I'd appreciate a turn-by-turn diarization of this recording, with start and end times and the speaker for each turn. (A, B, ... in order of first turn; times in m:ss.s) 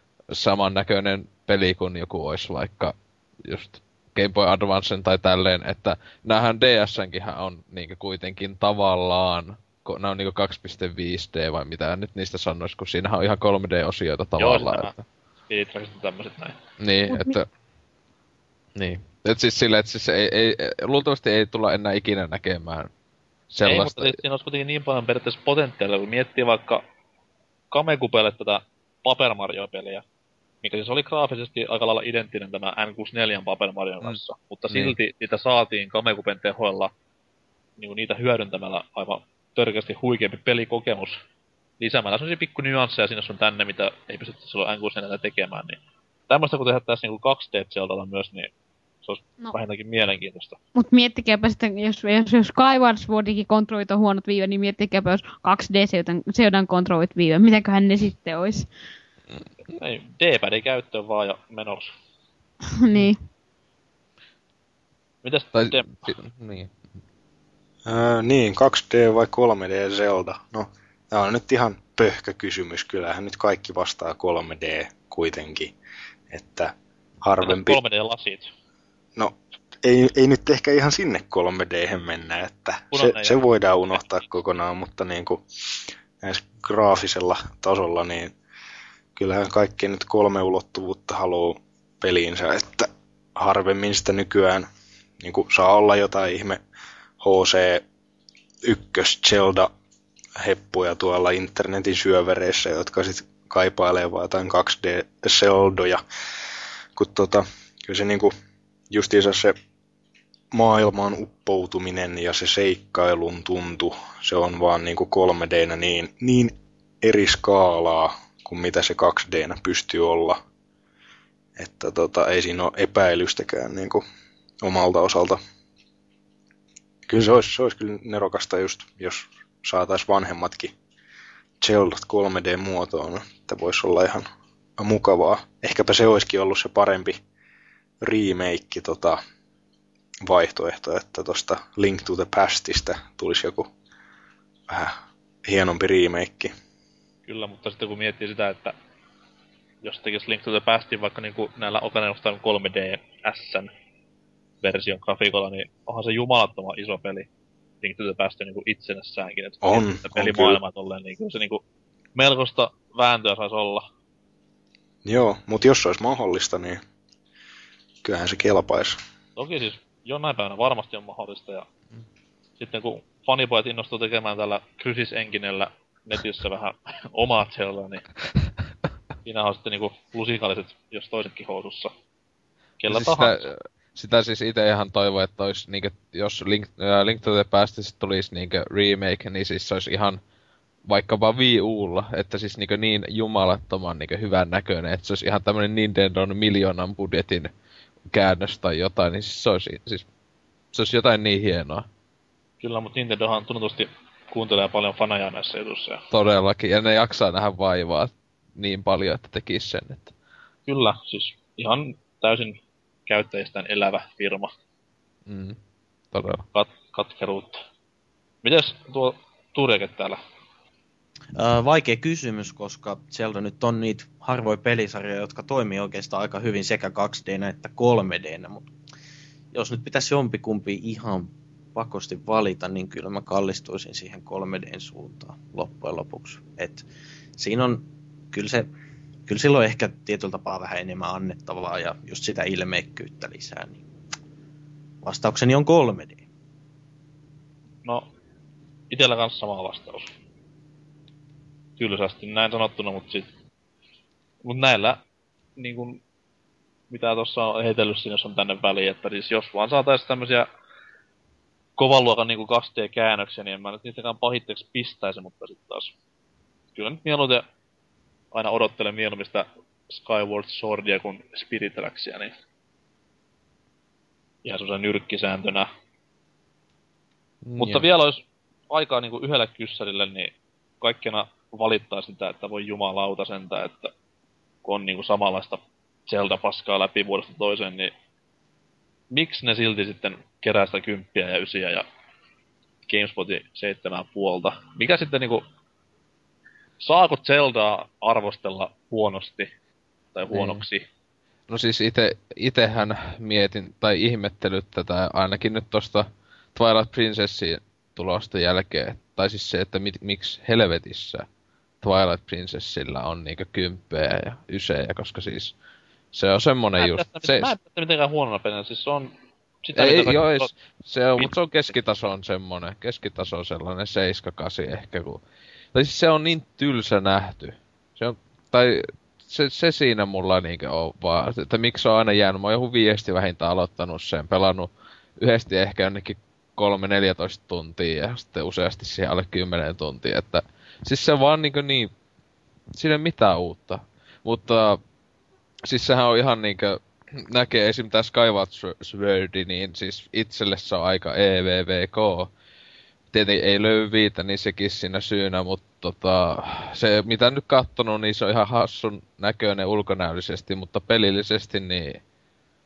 0:00.3-0:15.0 A
0:14.4-0:14.9 B
0:15.5-0:16.6 B
0:16.8-0:17.5 A
0:17.1-0:17.4 C
0:18.8-0:22.9 A
0:23.5-0:24.2 A
0:23.6-0:26.8 B
0:27.7-0:30.0 B
0:30.6-0:36.9 B
0:34.7-0:35.0 A
0:37.8-0:41.1 B
0:41.8-0:48.5 B
0:49.0-0:50.6 B
0:50.7-0:58.7 C
0:59.7-1:01.9 B
1:02.7-1:03.2 C
1:05.2-1:06.1 B
1:05.5-1:06.7 A
1:07.8-1:15.7 D
1:16.3-1:17.8 D
1:17.4-1:18.5 B
1:19.2-1:28.3 D
1:22.9-1:23.4 B
1:29.2-1:34.7 D
1:35.2-1:36.6 D
1:37.2-1:37.8 D
1:38.6-1:39.7 D
1:40.4-1:46.0 D
1:47.0-1:48.3 D
1:48.9-1:49.6 D
1:50.5-2:00.4 D
2:01.6-2:04.0 D
2:04.6-2:05.4 D
2:07.1-2:10.7 D
2:11.6-2:14.3 D
2:14.8-2:17.2 D
2:18.0-2:19.2 D
2:20.2-2:23.7 D
2:24.7-2:26.5 D
2:27.2-2:28.7 B
2:29.8-2:33.7 B
2:34.6-2:37.3 B
2:37.8-2:41.6 B
2:39.6-2:40.6 D
2:42.1-2:43.8 B
2:45.0-2:46.8 D
2:48.0-2:49.0 D
2:49.4-2:51.7 B
2:52.6-2:58.1 B
2:59.2-3:01.9 B
3:02.8-3:03.4 B
3:02.9-3:10.2 A
3:10.9-3:17.5 A
3:18.1-3:20.0 A
3:20.7-3:21.8 A
3:22.6-3:26.0 B
3:26.1-3:30.1 A
3:30.7-3:34.5 B
3:35.3-3:35.6 A
3:36.1-3:36.4 A
3:36.5-3:37.6 B
3:38.4-3:40.2 B
3:41.4-3:48.7 E
3:49.5-3:56.8 E
3:57.4-3:58.7 E
3:59.3-4:03.8 E
4:05.0-4:06.2 E
4:08.9-4:10.1 B
4:11.8-4:13.3 B
4:14.4-4:15.0 B
4:15.6-4:16.0 B
4:16.9-4:20.5 B
4:21.8-4:25.9 B
4:26.8-4:27.4 B
4:28.3-4:32.3 B
4:34.4-4:35.7 B
4:37.4-4:37.8 A
4:37.6-4:43.9 B
4:44.6-4:47.9 B
4:49.1-4:51.8 B
4:52.9-4:55.4 B
4:56.8-4:59.5 B
5:00.1-5:00.8 B
5:00.3-5:00.6 A
5:01.5-5:11.3 A
5:11.8-5:15.5 A
5:16.1-5:17.6 A
5:16.8-5:19.1 B
5:19.6-5:20.5 B
5:19.7-5:25.2 A
5:25.7-5:41.9 A
5:42.8-5:44.8 A
5:45.7-5:52.3 A
5:53.1-6:02.0 A